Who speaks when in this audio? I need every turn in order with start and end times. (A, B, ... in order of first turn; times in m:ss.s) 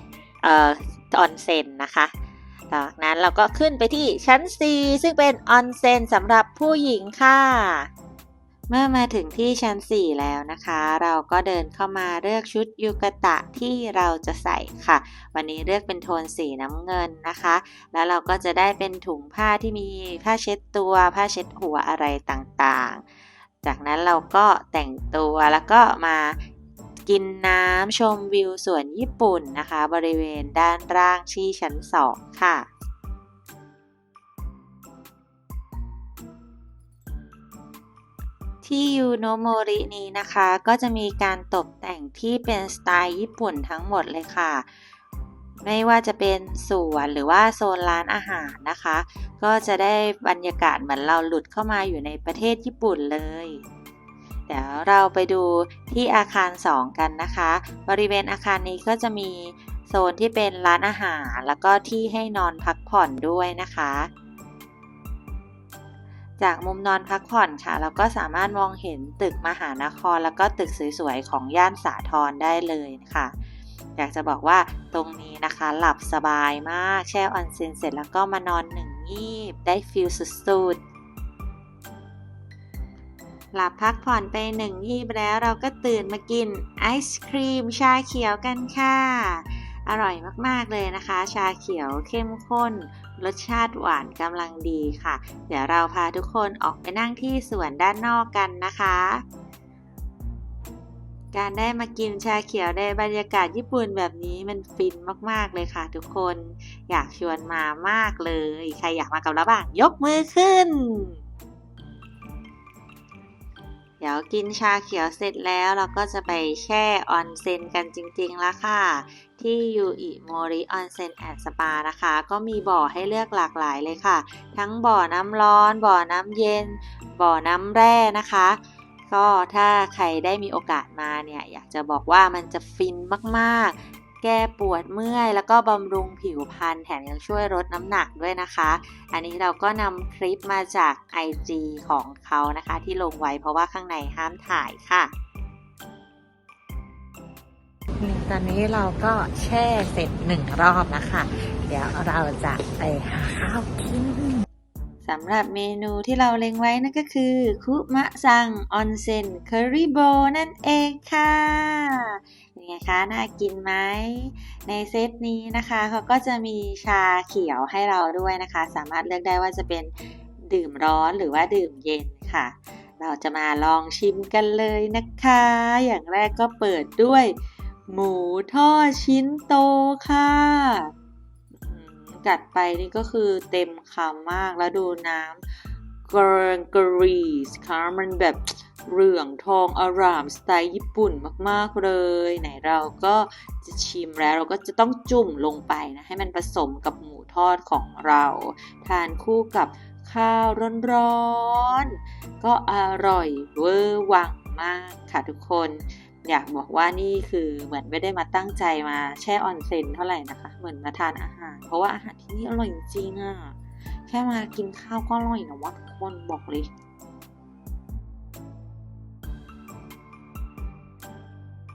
0:00.4-0:02.1 A
0:02.7-0:07.9 A
0:08.7-0:23.0 A
0:23.6-0:26.4 A
0:27.0-0:32.7 A
0:38.6-0:44.6 A
0:45.6-0:53.6 A
0:54.5-1:04.1 A
1:06.4-1:13.3 A
1:14.0-1:20.8 A
1:23.5-1:39.2 A
1:41.3-1:51.2 A
1:54.0-2:25.1 A
2:28.0-2:34.4 A
2:35.0-3:00.9 A
3:01.6-3:36.7 A